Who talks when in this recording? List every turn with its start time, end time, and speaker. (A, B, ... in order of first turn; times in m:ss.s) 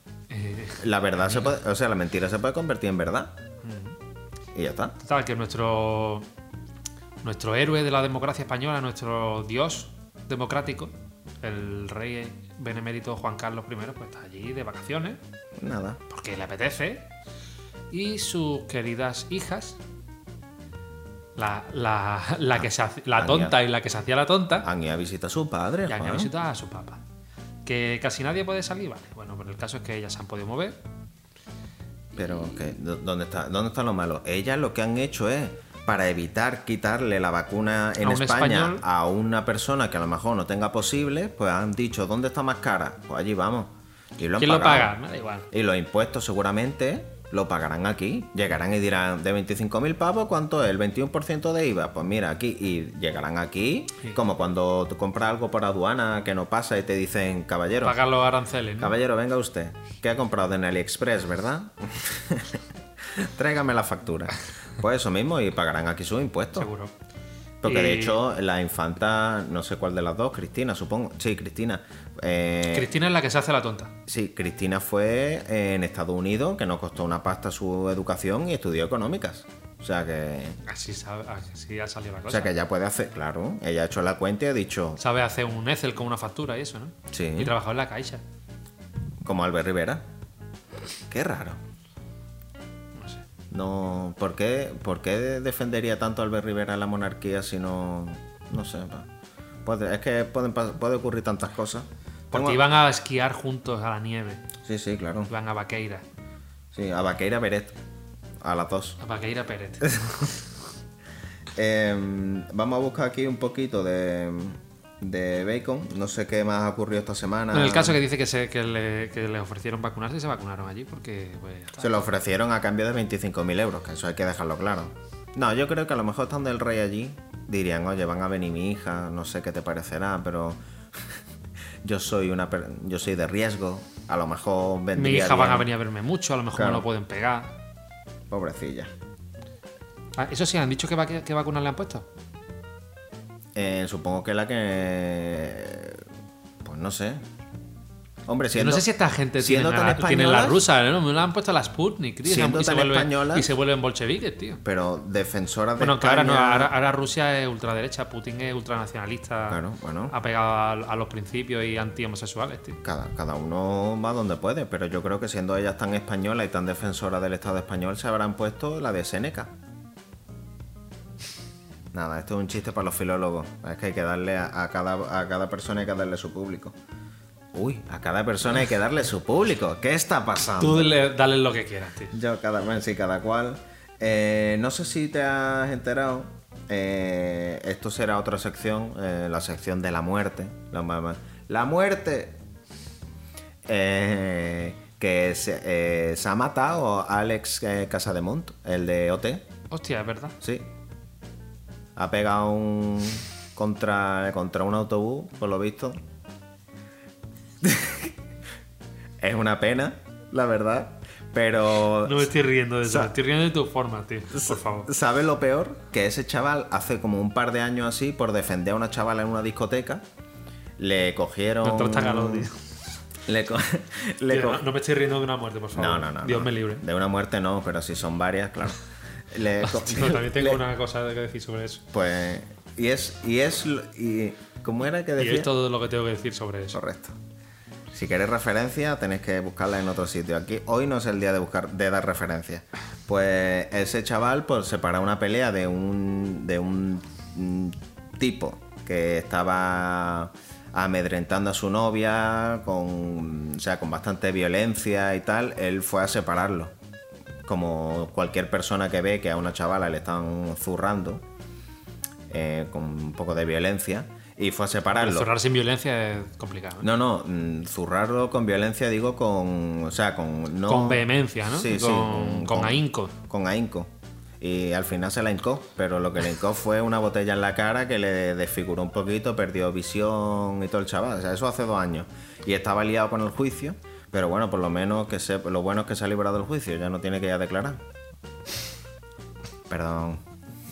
0:00.3-0:01.5 A
0:00.8-0:03.3 B
0:03.6-0:04.0 A
0:04.5-0:04.9 B
0:05.0-0:06.3 A
0:07.2-0:15.2 A
0:15.6-0:16.0 B
0:16.1-0:17.1 A
0:17.9-0:19.8 A
0:21.4-0:24.7 A
0:23.2-0:23.6 B
0:24.6-0:26.3 B
0:25.9-0:27.0 A
0:27.6-0:30.8 A
0:32.1-0:44.9 B
0:38.0-0:38.8 A
0:44.4-0:45.5 A
0:45.5-0:58.0 B
0:57.8-0:59.0 A
0:58.8-1:06.7 B
1:06.6-1:06.9 A
1:07.6-1:12.9 B
1:07.6-1:08.2 A
1:12.7-1:13.9 A
1:14.1-1:20.6 B
1:20.6-1:22.5 A
1:22.3-1:25.0 B
1:25.0-1:28.2 A
1:27.1-1:27.5 B
1:29.2-1:30.0 B
1:31.1-1:31.6 B
1:33.5-1:39.1 B
1:39.6-1:42.6 B
1:42.3-1:44.4 A
1:44.6-1:45.3 B
1:45.3-1:46.0 A
1:46.7-1:47.7 B
1:48.4-1:49.0 B
1:49.0-1:50.3 A
1:51.5-1:58.0 B
1:57.5-2:01.9 A
2:01.8-2:11.2 B
2:11.8-2:15.7 B
2:14.9-2:17.5 A
2:16.5-2:16.8 B
2:18.3-2:18.9 B
2:20.2-2:22.0 A
2:23.5-2:26.0 B
2:26.6-2:27.2 B
2:28.2-2:28.8 B
2:28.5-2:34.6 A
2:29.4-2:30.6 B
2:32.2-2:33.5 B
2:34.6-2:36.7 B
2:35.8-2:42.8 A
2:39.5-2:40.1 B
2:42.8-2:49.5 B
2:51.9-2:56.8 B
2:57.5-3:01.0 B
3:00.6-3:02.2 A
3:02.1-3:12.4 B
3:13.6-3:19.5 B
3:19.7-3:20.4 A
3:20.4-3:20.7 B
3:22.0-3:26.0 B
3:27.6-3:28.1 B
3:29.2-3:32.3 B
3:32.0-3:34.9 A
3:32.8-3:33.1 B
3:34.3-3:40.0 B
3:40.8-3:42.5 B
3:41.6-3:42.6 A
3:43.2-3:44.6 B
3:44.3-3:46.8 A
3:45.7-3:48.8 B
3:49.3-3:50.6 B
3:49.6-3:51.8 A
3:51.9-3:55.5 B
3:55.2-3:56.8 A
3:56.7-3:57.2 B
3:57.9-4:16.7 B
4:17.4-4:21.2 B
4:22.3-4:25.3 B
4:24.9-4:26.9 A
4:26.8-4:47.8 B
4:30.6-4:33.1 A
4:49.7-4:50.2 B